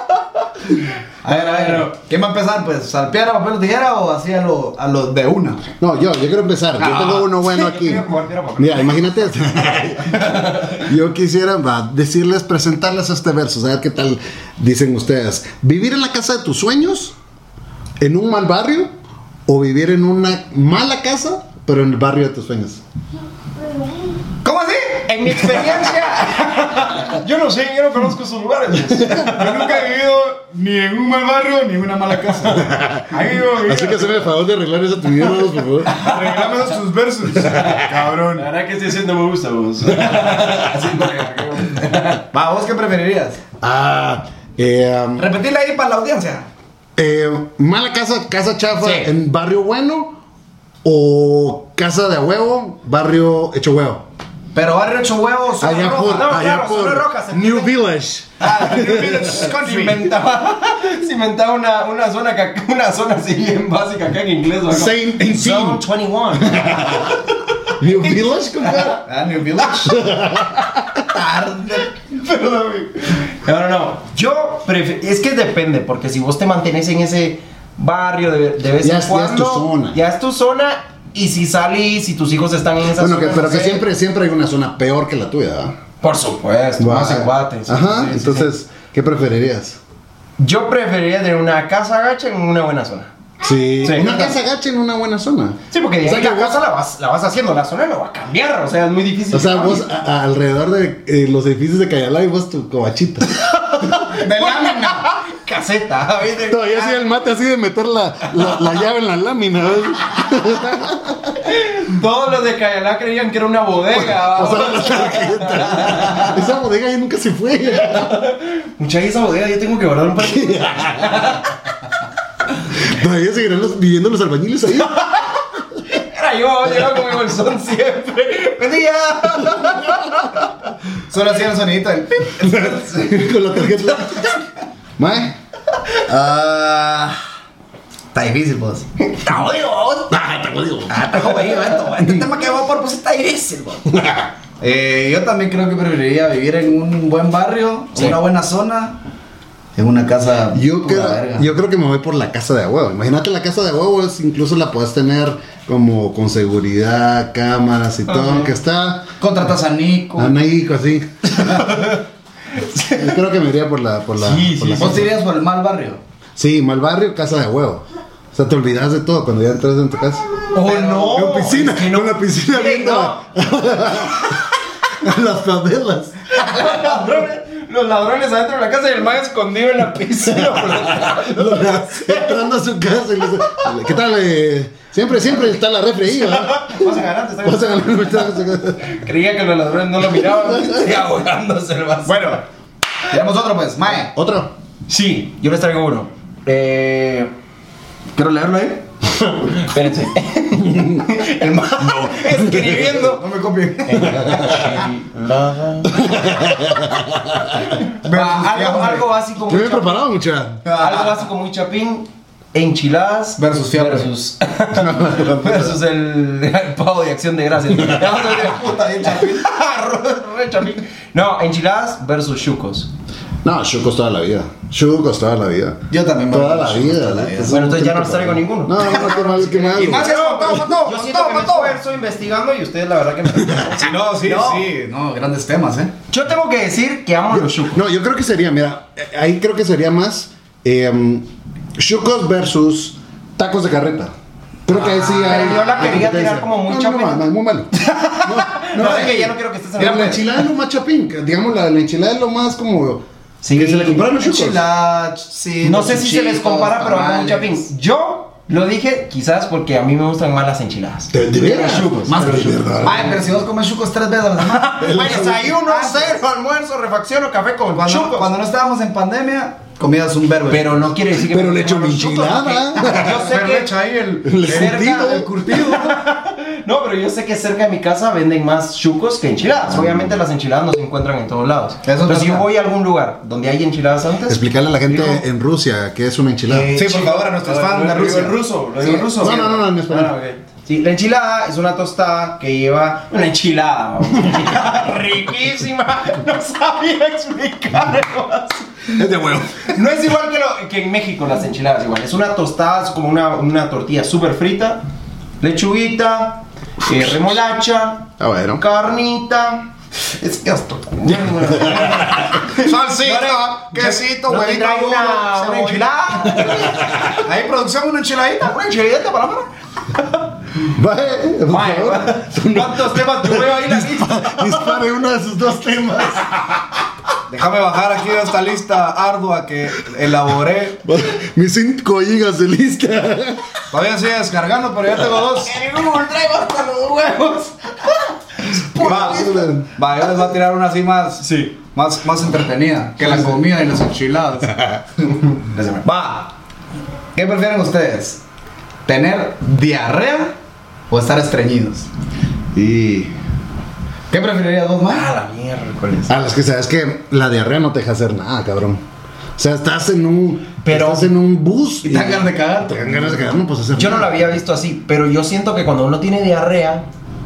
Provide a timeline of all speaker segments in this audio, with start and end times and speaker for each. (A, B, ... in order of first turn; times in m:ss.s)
0:01.2-0:05.7 A
0:01.2-0:01.9 B
0:05.8-0:08.0 C
0:06.8-0:08.9 A
0:08.6-0:17.2 C
0:18.0-0:18.9 C
0:19.5-0:22.8 C
0:24.4-0:26.5 A
0:25.0-0:29.8 B
0:28.9-0:29.3 C
0:29.2-0:34.3 A
0:32.5-0:35.9 C
0:35.8-0:38.5 A
0:36.0-0:36.3 B
0:37.5-0:42.2 B
0:40.0-0:40.5 C
0:40.9-0:41.2 A
0:41.8-0:43.4 A
0:43.6-0:45.3 C
0:45.2-0:46.5 A
0:47.0-0:50.2 C
0:48.8-0:49.1 B
0:50.8-0:54.0 C
0:54.5-0:56.4 A
0:55.6-0:59.4 C
0:56.0-0:57.7 B
0:58.4-1:00.2 A
0:59.2-1:07.2 B
1:04.7-1:05.8 C
1:06.4-1:09.0 C
1:09.0-1:10.0 A
1:09.8-1:11.0 C
1:11.1-1:12.2 A
1:12.3-1:23.8 B
1:18.8-1:20.0 C
1:23.0-1:25.8 C
1:26.0-1:28.5 B
1:26.8-1:29.8 C
1:30.4-1:33.1 B
1:33.4-1:36.6 C
1:33.8-1:34.3 B
1:35.7-1:39.9 B
1:39.3-1:43.5 C
1:43.6-1:47.1 B
1:44.1-1:45.1 A
1:46.5-1:51.3 C
1:51.4-1:56.4 B
1:53.9-1:58.2 C
1:57.8-2:01.6 B
2:00.2-2:01.4 C
2:02.7-2:05.0 C
2:05.0-2:10.4 B
2:11.1-2:13.3 A
2:12.4-2:14.3 C
2:15.0-2:15.4 C
2:16.0-2:17.2 A
2:18.1-2:18.9 A
2:19.0-2:20.1 B
2:20.1-2:21.1 C
2:20.9-2:23.8 A
2:21.1-2:21.9 B
2:23.9-2:24.3 C
2:24.6-2:29.0 A
2:29.8-2:31.4 A
2:30.5-2:39.1 C
2:38.1-2:38.5 B
2:39.2-2:40.3 A
2:40.2-2:41.6 C
2:41.4-2:42.0 B
2:42.5-2:43.2 B
2:42.9-2:45.1 C
2:44.2-2:45.1 B
2:44.8-2:46.0 A
2:46.4-2:50.2 C
2:50.5-2:53.2 B
2:50.6-2:51.2 A
2:51.1-2:56.9 C
2:56.3-3:02.4 B
3:00.2-3:09.0 C
3:06.1-3:12.4 B
3:10.4-3:10.8 C
3:12.0-3:12.4 A
3:13.1-3:14.1 A
3:13.9-3:14.5 C
3:14.9-3:17.3 B
3:18.1-3:23.2 B
3:20.6-3:21.0 C
3:21.5-3:24.3 A
3:23.8-3:26.5 B
3:24.0-3:24.8 C
3:25.9-3:27.8 C
3:28.0-3:29.0 A
3:28.0-3:30.0 B
3:29.5-3:30.6 C
3:30.6-3:31.2 A
3:30.7-3:42.9 B
3:33.4-3:34.1 A
3:34.7-3:35.7 C
3:37.7-3:38.0 C
3:38.2-3:39.4 A
3:43.4-3:45.8 C
3:45.9-3:47.5 A
3:46.3-3:50.1 C
3:47.5-3:54.7 B
3:49.8-3:51.8 A
3:53.8-3:55.9 A
3:56.1-3:57.8 B
3:57.4-4:04.1 C
4:04.6-4:14.6 C
4:04.7-4:07.3 B
4:07.8-4:10.4 B
4:13.4-4:14.4 B
4:14.3-4:17.6 A
4:15.6-4:22.5 B
4:21.1-4:23.2 C
4:22.1-4:26.2 A
4:24.6-4:28.3 B
4:24.8-4:25.5 C
4:27.8-4:30.9 A
4:30.5-4:33.7 B
4:31.1-4:33.3 C
4:33.0-4:36.0 A
4:34.2-4:35.3 C
4:34.4-4:45.2 B
4:39.8-4:40.1 C
4:41.8-4:42.5 A
4:44.3-4:46.7 C
4:46.5-4:58.9 B
4:46.7-4:49.1 A
4:49.1-4:50.1 C
4:59.0-4:59.7 C
4:59.7-5:04.8 B
5:05.4-5:16.9 B
5:08.2-5:08.6 C
5:11.4-5:12.2 C
5:12.4-5:16.5 A
5:16.6-5:17.2 C
5:17.2-5:18.5 A
5:18.4-5:20.2 B
5:20.7-5:26.6 C
5:21.5-5:24.8 B
5:27.3-5:30.8 A
5:30.8-5:33.4 C
5:33.7-5:35.5 A
5:35.4-5:39.4 B
5:38.7-5:39.7 C
5:38.8-5:44.5 A
5:41.2-5:41.6 B
5:45.2-5:45.8 B
5:45.8-5:46.3 A
5:47.1-5:48.2 A
5:48.8-5:50.3 A
5:50.9-5:51.9 A
5:52.5-5:53.1 C
5:54.1-5:55.1 A
5:54.9-5:56.2 B
5:56.1-5:58.8 C
5:59.4-6:04.4 C
6:00.6-6:01.1 B
6:01.8-6:03.4 A
6:03.7-6:06.9 B